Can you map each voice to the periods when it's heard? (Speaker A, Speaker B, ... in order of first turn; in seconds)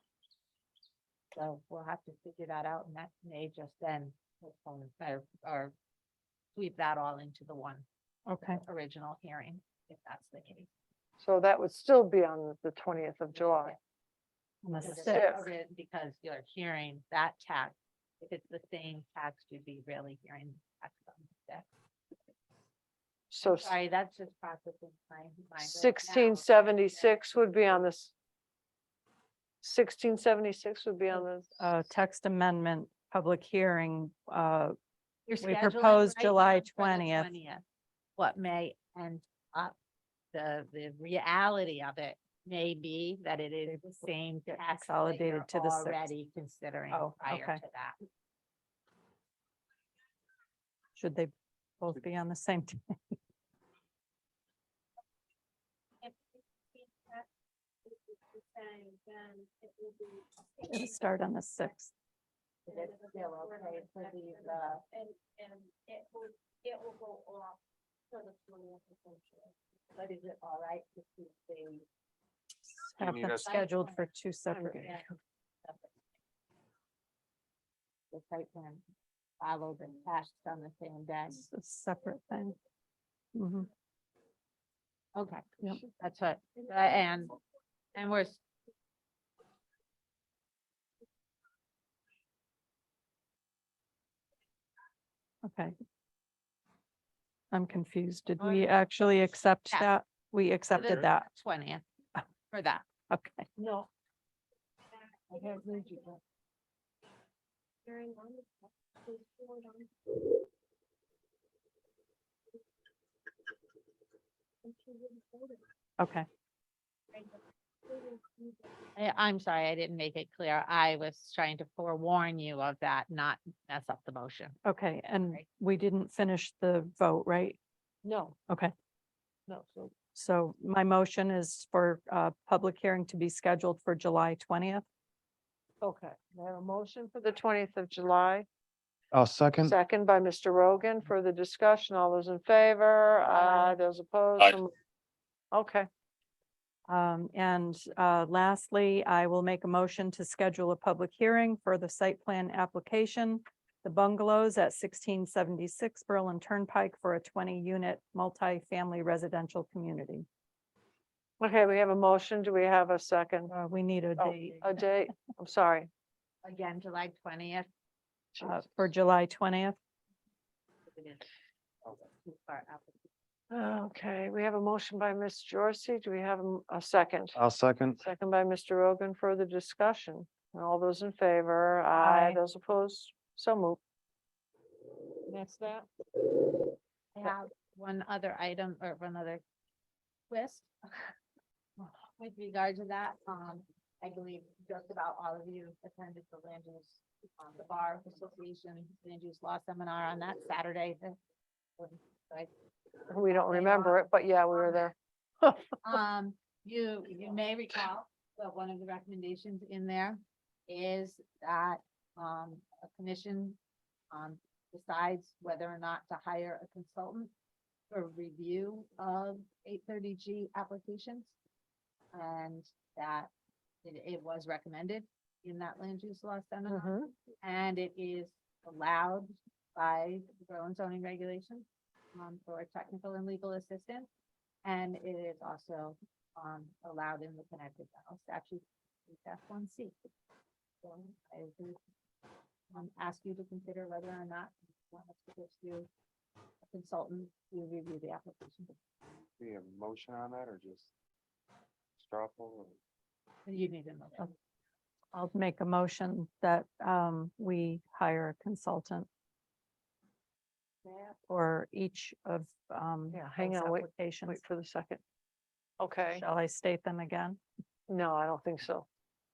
Speaker A: 1.4-5.7, 6.5-7.9, 8.5-10.7, 13.3-13.8, 14.8-21.7, 23.4-27.7, 35.3-37.6, 38.2-39.8, 40.3-48.0, 62.7-64.8, 70.0-71.8, 73.4-74.1, 74.8-75.1, 75.6-75.9, 78.1-78.8, 79.4-81.5, 85.2-87.4, 88.0-88.4, 100.7-101.8, 102.5-102.8, 119.0-124.6, 166.4-167.7, 170.9-171.3, 171.8-173.1, 187.1-189.4, 190.3-191.1, 191.8-201.2, 201.8-202.5, 203.3-204.1, 205.7-213.6, 214.1-217.3, 217.9-221.3, 222.1-223.3, 223.8-234.1, 234.6-240.0, 240.8-241.8, 242.7-245.9, 246.7-248.8, 253.5-254.3
Speaker B: 8.3-8.6, 14.6-15.3, 31.6-34.8, 35.4-37.4, 43.7-46.1, 46.9-47.6, 51.0-53.1, 60.7-61.9, 72.9-74.9, 81.3-82.6, 83.3-83.7, 95.4-95.7, 97.5-101.3, 103.1-103.5, 116.0-116.3, 124.7-127.6, 130.1-134.8, 146.9-160.3, 163.5-165.1, 168.4-169.8, 182.0-182.4, 255.1-259.1, 261.3-264.4, 266.1-267.4
Speaker C: 11.2-13.7, 15.1-15.5, 23.3-23.8, 25.6-28.1, 29.6-31.7, 74.5-75.0, 98.4-98.8, 103.6-103.9, 105.3-106.2, 128.0-128.4, 129.5-129.9, 135.8-138.5, 139.6-144.7, 145.5-145.9, 161.4-163.5, 164.2-165.9, 168.3-168.6, 173.5-177.4, 178.0-183.8, 185.3-185.9, 203.1-204.9, 226.7-227.1, 263.1-265.0, 265.8-266.2, 267.9-268.9
Speaker D: 56.0-57.2, 57.9-61.1, 62.7-67.6, 68.1-69.5, 105.0-106.2, 107.8-109.9, 114.6-115.6, 117.1-118.7
Speaker E: 73.0-73.5, 139.1-139.8, 177.4-178.0, 249.4-250.9, 252.0-252.8